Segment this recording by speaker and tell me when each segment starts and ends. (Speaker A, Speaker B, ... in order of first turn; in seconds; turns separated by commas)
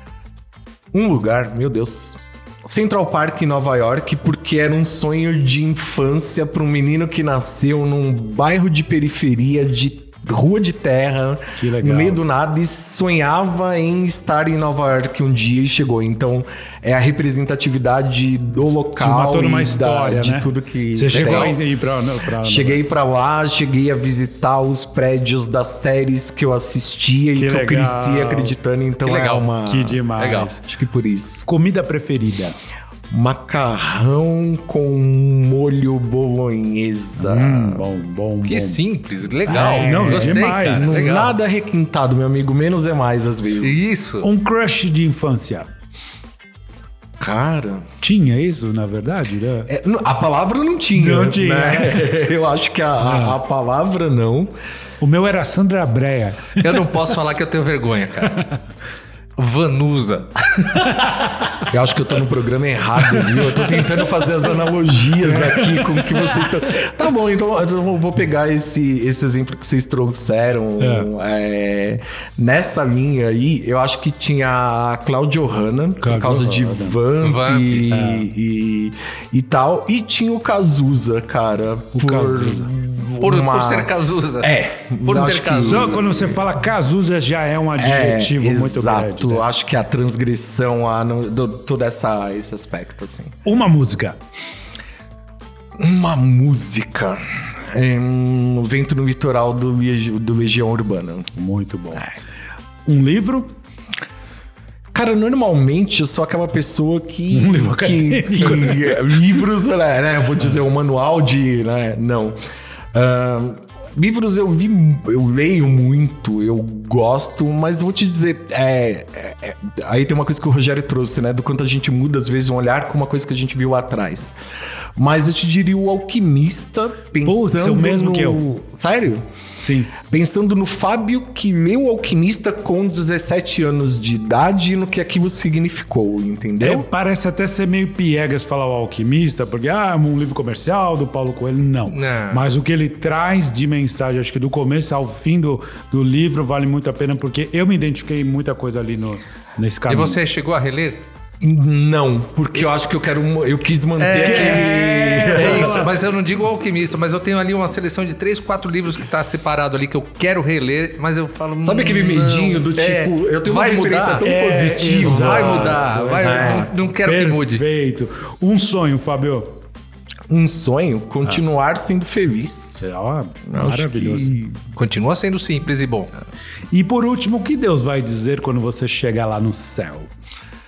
Speaker A: 0.9-21.6, Speaker B: 11.6-12.2, Speaker B: 19.0-22.8, Speaker C: 21.1-21.5, Speaker A: 22.4-30.0, Speaker B: 27.4-28.6, Speaker C: 29.0-29.5, Speaker B: 29.6-30.6, Speaker C: 30.1-30.5, Speaker A: 30.6-31.4, Speaker B: 31.4-32.5, Speaker A: 33.1-37.9, Speaker B: 37.2-38.8, Speaker C: 38.5-41.4, Speaker A: 39.5-43.9, Speaker B: 39.5-41.0, Speaker C: 43.6-44.3, Speaker B: 44.2-45.7, Speaker A: 47.2-47.9, Speaker B: 48.0-49.7, Speaker A: 49.7-54.5, Speaker B: 51.0-52.1, Speaker B: 53.0-53.4, Speaker B: 55.0-57.2, Speaker C: 56.6-58.5, Speaker C: 59.4-61.0, Speaker A: 61.7-86.4, Speaker B: 63.0-63.9, Speaker B: 65.2-66.5, Speaker B: 70.8-71.1, Speaker B: 76.0-77.0, Speaker C: 77.2-77.9, Speaker B: 77.9-78.3, Speaker B: 82.0-82.7, Speaker C: 83.2-86.0, Speaker B: 85.5-89.5, Speaker A: 87.8-93.4, Speaker B: 93.5-94.2, Speaker A: 95.8-101.3, Speaker B: 101.3-102.1, Speaker B: 102.9-103.5, Speaker A: 104.9-112.4, Speaker B: 107.3-109.4, Speaker A: 112.9-124.4, Speaker A: 125.0-129.3, Speaker B: 127.2-128.4, Speaker B: 129.6-129.9, Speaker A: 130.0-136.9, Speaker B: 136.6-150.2, Speaker C: 141.9-142.5, Speaker C: 149.9-151.0, Speaker A: 151.4-155.9, Speaker C: 154.0-154.7, Speaker B: 154.2-156.0, Speaker C: 155.3-164.2, Speaker A: 161.6-166.7, Speaker B: 164.2-169.6, Speaker C: 165.0-167.6, Speaker A: 170.3-172.9, Speaker B: 172.8-174.4, Speaker A: 173.5-174.5, Speaker C: 174.8-176.1, Speaker B: 176.7-180.1